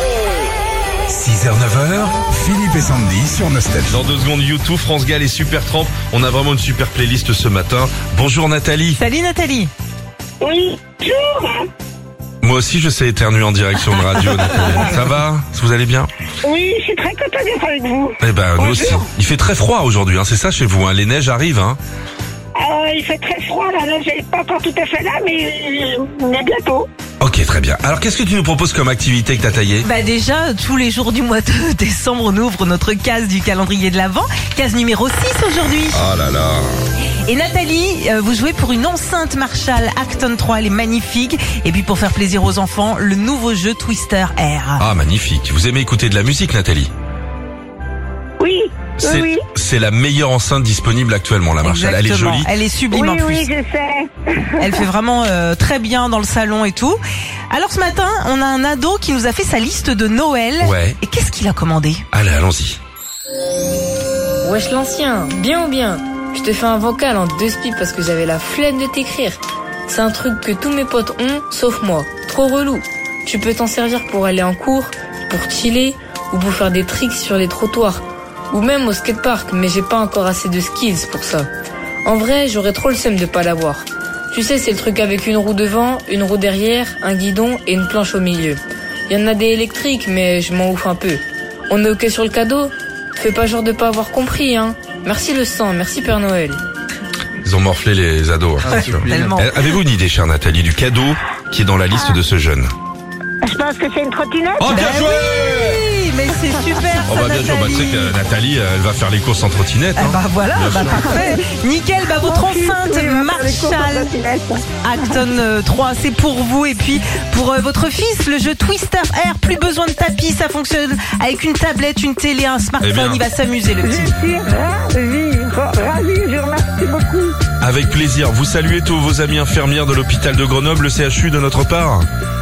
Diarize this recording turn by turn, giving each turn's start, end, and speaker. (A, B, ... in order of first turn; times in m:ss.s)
0:01.1-0:04.1 A
0:03.9-0:09.0 B
0:09.0-0:09.7 C
0:10.4-0:11.7 D
0:12.4-0:16.1 B
0:16.4-0:19.1 D
0:18.2-0:21.8 B
0:22.6-0:26.9 D
0:27.2-0:29.9 B
0:29.8-0:36.0 C
0:35.9-0:36.7 B
0:37.3-0:44.9 C
0:44.8-0:46.9 B
0:48.4-0:49.4 D
0:49.0-0:52.6 B
0:51.6-0:53.5 C
0:52.9-0:54.9 D
0:54.6-0:57.0 C
0:57.5-1:02.0 C
1:00.6-1:01.0 B
1:02.1-1:02.8 B
1:04.4-1:21.5 E
1:22.0-1:36.6 E
1:37.4-1:42.7 B
1:38.7-1:39.8 C
1:43.4-1:44.9 D
1:44.6-1:45.8 B
1:44.6-1:48.2 C
1:47.0-1:51.1 B
1:50.0-1:54.2 C
1:51.0-1:51.4 D
1:52.2-1:54.7 D
1:54.8-2:04.1 C
2:02.8-2:03.8 B
2:03.8-2:07.4 D
2:07.6-2:12.1 B